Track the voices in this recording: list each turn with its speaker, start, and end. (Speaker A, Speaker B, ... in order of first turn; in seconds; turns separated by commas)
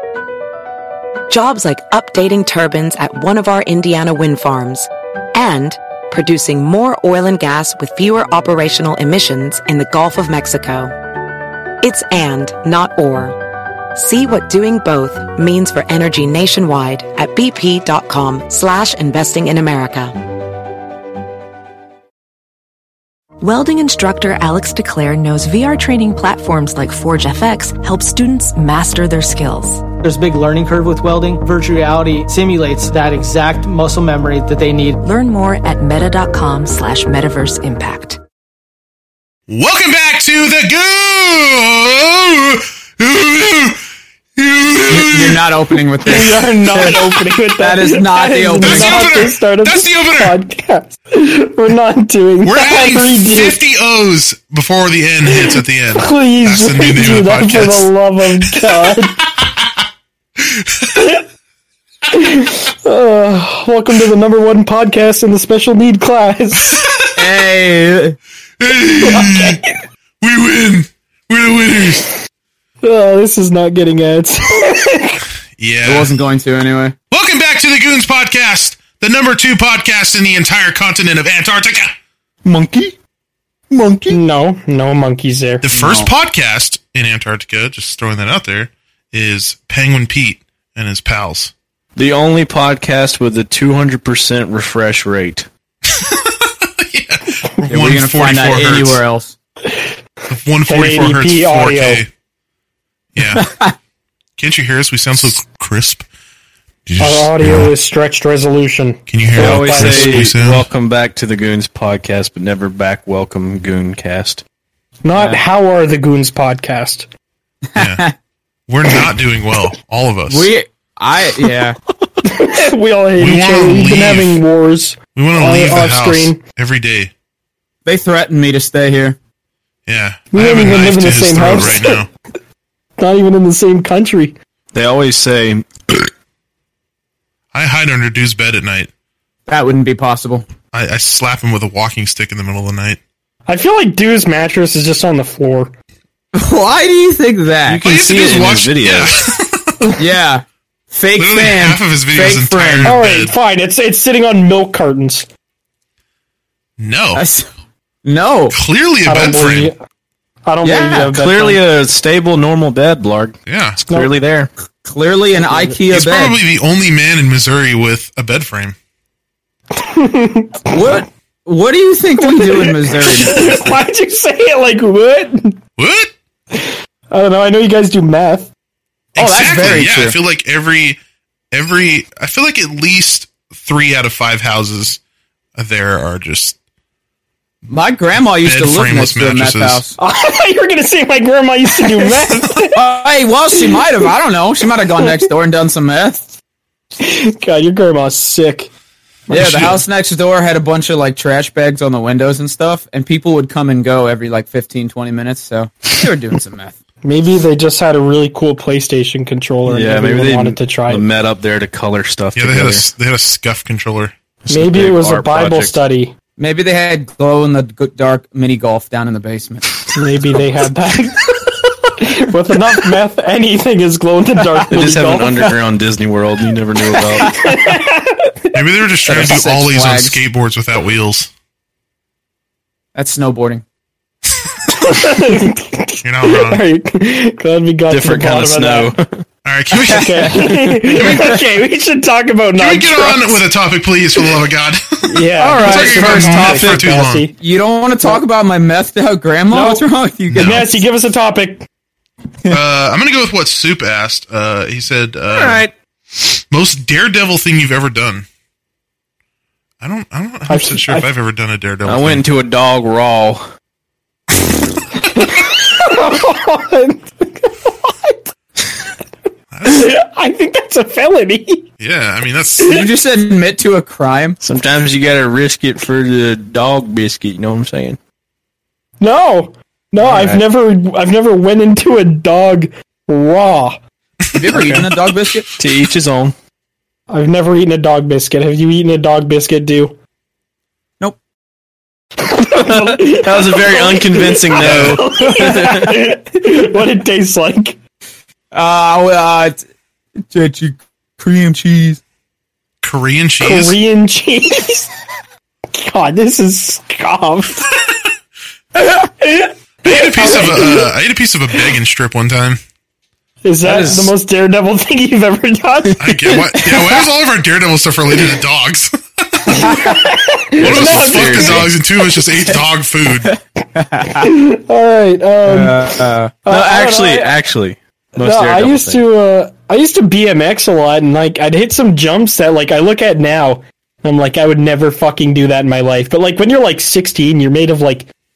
Speaker A: 1.3-10.9, Speaker A: 11.8-13.4, Speaker A: 13.9-20.2, Speaker B: 23.4-29.9, Speaker C: 30.0-35.0, Speaker B: 35.0-38.2, Speaker D: 39.5-43.8, Speaker D: 44.4-45.5, Speaker E: 44.9-47.0, Speaker F: 46.1-53.6, Speaker E: 47.6-49.2, Speaker D: 48.5-50.4, Speaker D: 52.4-57.9, Speaker F: 55.3-59.2, Speaker D: 58.5-59.7, Speaker D: 60.4-60.9, Speaker F: 61.0-61.2, Speaker F: 62.1-66.8, Speaker D: 66.7-67.1, Speaker E: 67.2-68.2, Speaker D: 68.6-69.6, Speaker F: 69.0-69.7, Speaker D: 70.2-72.1, Speaker F: 72.8-75.2, Speaker D: 75.6-76.2, Speaker E: 75.8-76.9, Speaker D: 77.1-81.9, Speaker G: 82.4-83.0, Speaker G: 83.7-84.2, Speaker F: 84.1-85.7, Speaker D: 85.6-91.5, Speaker E: 85.7-86.1, Speaker G: 92.0-95.5, Speaker D: 95.9-99.0, Speaker E: 97.7-99.3, Speaker F: 99.7-99.9, Speaker D: 100.3-102.1, Speaker F: 100.7-102.0, Speaker D: 103.2-103.5, Speaker E: 103.4-103.8, Speaker D: 104.4-106.1, Speaker D: 106.9-107.7, Speaker F: 107.0-110.3, Speaker D: 109.1-110.7, Speaker G: 109.4-114.4, Speaker F: 115.0-117.1, Speaker E: 115.1-115.4, Speaker E: 117.8-118.1, Speaker D: 117.8-118.1, Speaker D: 118.7-120.5, Speaker E: 120.3-121.8, Speaker F: 122.2-126.4, Speaker D: 123.2-124.4, Speaker D: 125.1-127.1, Speaker E: 127.8-129.2, Speaker D: 129.9-132.1, Speaker F: 130.3-132.1, Speaker F: 133.0-134.4, Speaker G: 134.7-136.1, Speaker D: 137.5-138.9, Speaker E: 139.5-140.5, Speaker D: 140.7-143.0, Speaker F: 143.5-145.7, Speaker E: 146.3-147.8, Speaker G: 147.7-149.1, Speaker D: 147.8-149.8, Speaker E: 150.0-153.0, Speaker D: 151.2-153.4, Speaker F: 152.8-155.3, Speaker D: 156.8-157.2, Speaker E: 157.2-157.5, Speaker E: 158.1-158.6, Speaker D: 158.5-159.7, Speaker F: 159.1-159.8, Speaker F: 160.4-161.6, Speaker E: 160.6-161.1, Speaker G: 161.0-164.5, Speaker D: 163.5-163.8, Speaker E: 164.8-166.4, Speaker D: 165.9-168.8, Speaker F: 169.7-171.1, Speaker E: 170.7-173.8, Speaker F: 172.2-175.6, Speaker D: 175.8-176.1, Speaker F: 176.5-178.5, Speaker D: 179.2-181.0, Speaker E: 179.2-180.2, Speaker D: 181.5-185.0, Speaker D: 185.6-186.6, Speaker E: 187.7-190.0, Speaker D: 188.4-189.8, Speaker F: 190.0-192.8, Speaker E: 192.7-196.4, Speaker F: 197.0-198.7, Speaker F: 199.3-199.8, Speaker E: 199.3-206.8, Speaker D: 199.3-199.7, Speaker F: 207.0-211.1, Speaker G: 209.7-212.9, Speaker D: 212.3-214.1, Speaker G: 214.4-215.8, Speaker F: 214.5-216.1, Speaker E: 216.4-219.7, Speaker F: 219.9-225.6, Speaker G: 224.7-227.3, Speaker F: 227.2-228.6, Speaker D: 228.5-231.3, Speaker E: 229.1-230.2, Speaker E: 232.9-233.6, Speaker F: 234.8-238.9, Speaker D: 236.0-236.6, Speaker G: 237.9-239.2, Speaker D: 239.4-241.4, Speaker F: 239.9-243.5, Speaker D: 242.6-247.3, Speaker F: 245.1-247.3, Speaker G: 245.4-246.9, Speaker E: 247.4-250.6, Speaker F: 249.5-251.7, Speaker D: 250.3-250.8, Speaker D: 252.5-255.6, Speaker G: 255.3-255.7, Speaker D: 256.5-258.3, Speaker D: 259.8-262.2, Speaker F: 260.5-261.1, Speaker G: 261.9-263.5, Speaker F: 265.2-268.3, Speaker D: 269.5-269.9, Speaker F: 269.7-271.7, Speaker D: 271.8-272.7, Speaker E: 272.6-274.4, Speaker G: 274.4-278.0, Speaker F: 279.0-283.8, Speaker G: 280.0-280.4, Speaker D: 284.2-284.7, Speaker E: 284.3-285.5, Speaker G: 284.5-284.9, Speaker F: 284.6-284.8, Speaker G: 285.6-286.4, Speaker F: 287.1-290.0, Speaker F: 292.2-297.8, Speaker G: 292.6-296.1, Speaker D: 294.6-295.1, Speaker E: 298.5-299.6, Speaker E: 300.3-302.0, Speaker D: 302.8-303.8, Speaker F: 303.4-304.9, Speaker F: 305.7-307.7, Speaker F: 309.2-310.9, Speaker D: 309.9-312.6, Speaker F: 313.4-316.6, Speaker G: 313.6-314.1, Speaker D: 316.0-319.5, Speaker F: 319.5-321.7, Speaker G: 320.6-321.7, Speaker D: 320.6-323.4, Speaker E: 323.2-324.2, Speaker F: 324.1-327.4, Speaker E: 325.4-326.3, Speaker G: 326.5-329.1, Speaker F: 328.2-338.1